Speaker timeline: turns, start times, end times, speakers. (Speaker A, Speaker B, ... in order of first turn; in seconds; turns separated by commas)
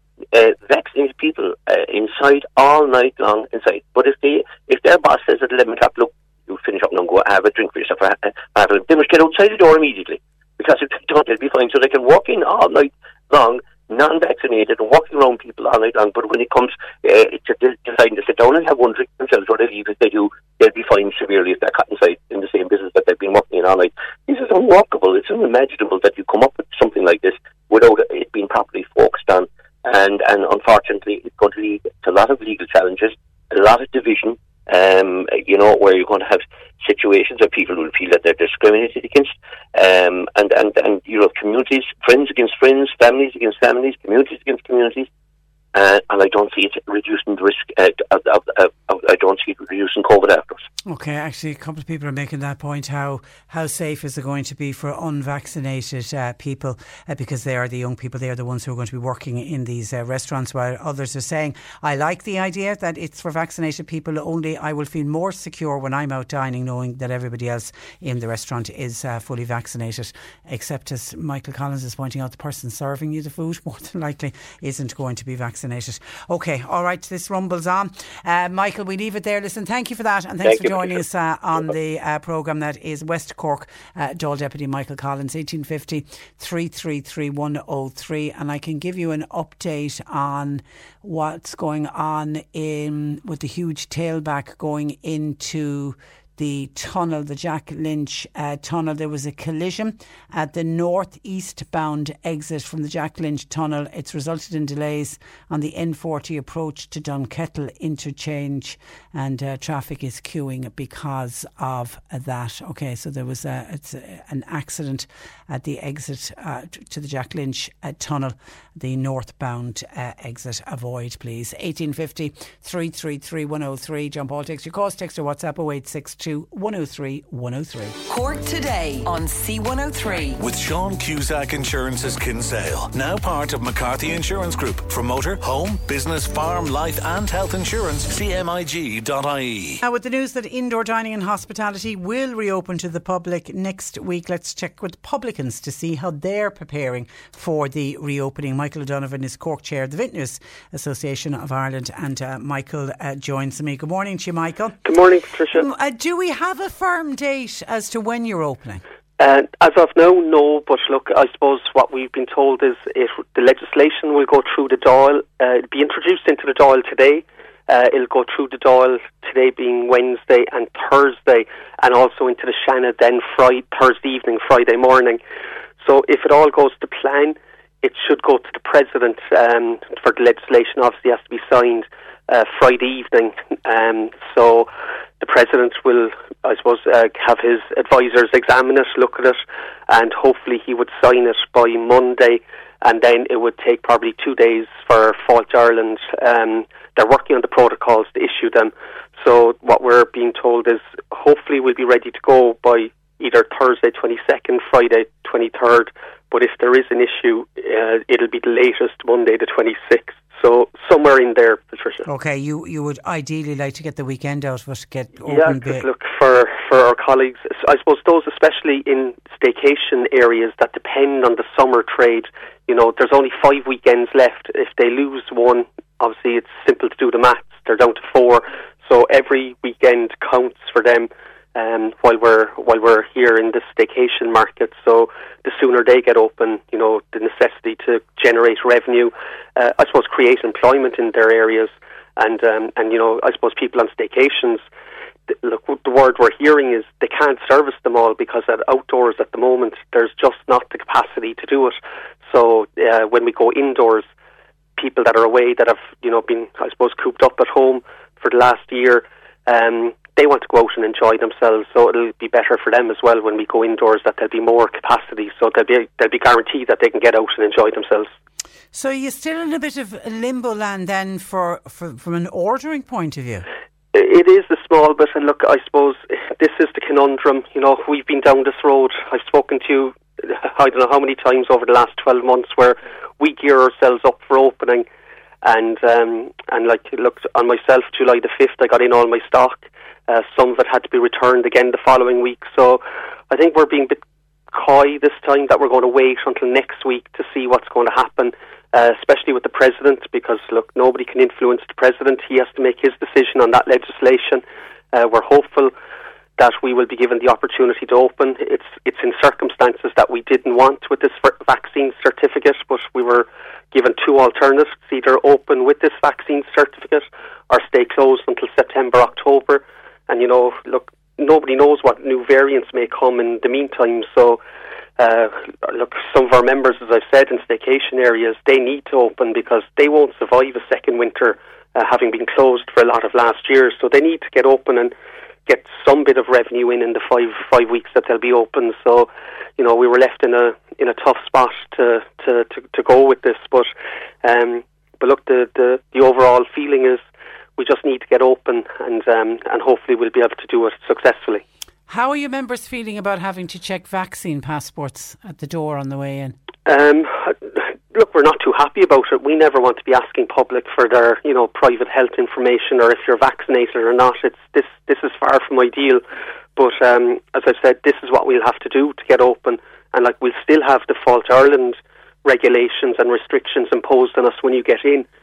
Speaker A: 0.3-45.1, Speaker A: 45.7-50.6, Speaker B: 50.9-128.0, Speaker C: 128.1-130.4, Speaker D: 130.4-139.8, Speaker B: 139.8-154.8, Speaker E: 154.8-155.7, Speaker B: 155.5-158.8, Speaker E: 159.2-175.2, Speaker E: 175.8-184.7, Speaker E: 185.2-212.1, Speaker B: 212.1-215.9, Speaker E: 215.3-244.7, Speaker E: 245.3-254.1, Speaker E: 254.8-268.1, Speaker B: 268.7-273.5, Speaker E: 273.9-284.9, Speaker E: 285.4-294.0, Speaker E: 294.5-305.7, Speaker E: 306.4-324.4, Speaker E: 325.0-334.9, Speaker E: 335.5-343.7, Speaker E: 344.2-347.0, Speaker E: 347.6-351.4, Speaker B: 351.9-356.4, Speaker E: 356.7-366.0, Speaker E: 366.6-375.1